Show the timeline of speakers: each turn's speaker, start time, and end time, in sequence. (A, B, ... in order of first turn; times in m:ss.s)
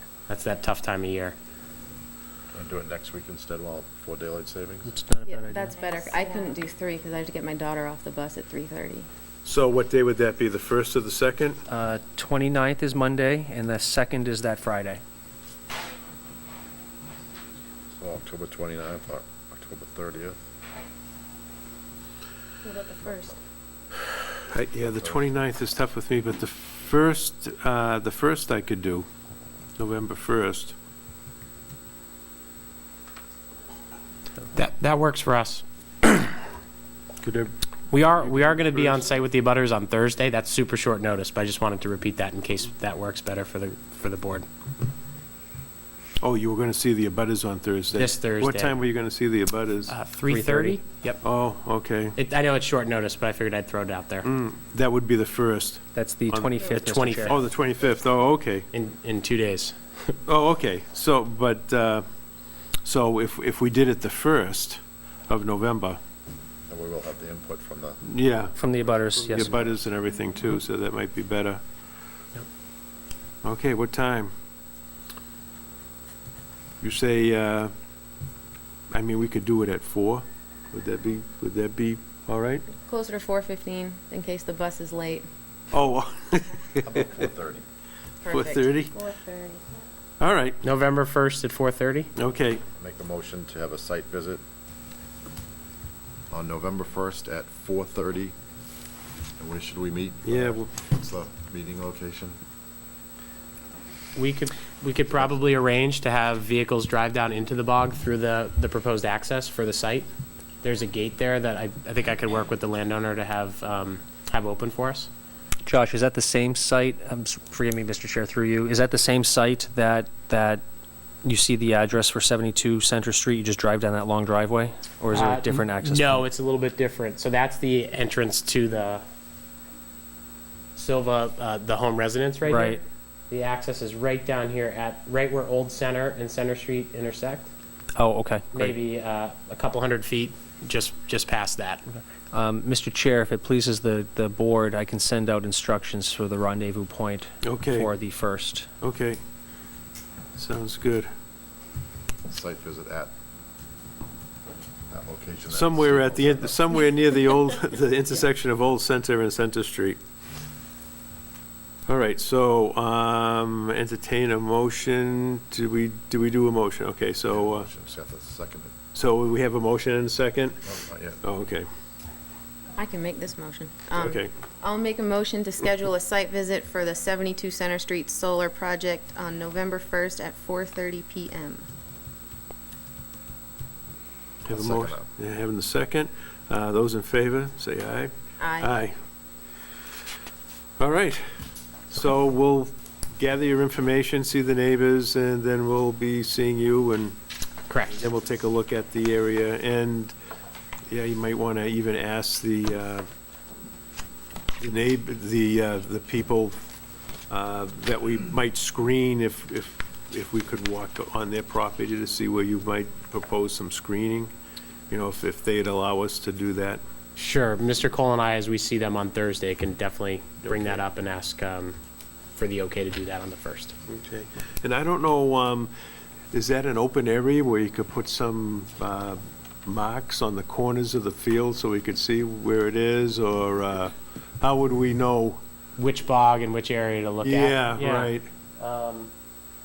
0:00.3-0:01.4 A
0:02.5-0:04.9 B
0:04.9-0:05.8 C
0:05.2-0:09.1 D
0:09.4-0:11.6 E
0:11.7-0:15.0 C
0:17.9-0:20.4 B
0:22.6-0:23.3 D
0:23.0-0:23.4 B
0:24.5-0:29.1 E
0:24.8-0:25.4 B
0:29.8-0:30.7 E
0:34.5-0:36.4 A
0:37.2-0:39.1 E
0:37.9-0:44.5 A
0:46.2-0:50.0 E
0:47.9-0:48.8 A
0:49.9-0:51.1 A
0:50.3-0:51.1 C
0:51.2-0:52.2 E
0:52.2-0:54.3 A
0:54.2-0:58.7 E
0:55.9-0:57.4 C
0:56.7-0:57.4 A
0:58.7-1:00.2 A
1:00.3-1:02.0 E
1:02.8-1:06.0 E
1:06.7-1:08.0 B
1:08.0-1:11.6 E
1:08.6-1:09.8 C
1:13.4-1:14.3 E
1:16.8-1:17.7 E
1:18.9-1:22.7 E
1:22.8-1:25.3 D
1:25.7-1:27.0 E
1:26.8-1:27.6 B
1:28.2-1:29.8 D
1:28.3-1:29.0 E
1:30.2-1:30.6 E
1:30.6-1:32.1 A
1:32.2-1:32.6 E
1:32.8-1:34.4 B
1:36.3-1:38.4 B
1:39.4-1:42.4 B
1:40.2-1:40.7 E
1:44.2-1:50.1 A
1:50.6-1:55.1 A
1:55.7-2:00.6 C
2:01.2-2:06.3 C
2:05.1-2:09.0 A
2:10.8-2:17.5 A
2:12.5-2:12.8 C
2:18.0-2:18.8 C
2:18.5-2:21.9 A
2:22.3-2:28.7 C
2:27.4-2:27.9 E
2:28.8-2:29.2 E
2:30.4-2:31.1 E
2:32.3-2:33.1 B
2:34.9-2:36.6 B
2:35.5-2:40.0 E
2:41.9-2:47.7 E
2:47.2-2:48.7 B
2:48.9-2:50.6 E
2:50.6-2:51.2 B
2:51.2-2:51.7 E
2:52.8-3:01.7 D
2:53.9-2:54.3 E
3:04.4-3:09.0 E
3:04.5-3:05.1 B
3:08.4-3:08.8 D
3:10.8-3:17.2 E
3:17.7-3:17.9 A
3:17.9-3:20.1 E
3:20.9-3:23.1 E
3:24.6-3:26.6 E
3:27.3-3:34.3 E
3:34.9-3:36.8 E
3:37.2-3:41.8 A
3:40.5-3:40.8 E
3:42.4-3:43.7 A
3:43.9-3:45.7 E
3:46.3-3:55.4 E
3:55.8-3:59.1 A
3:57.2-3:58.3 E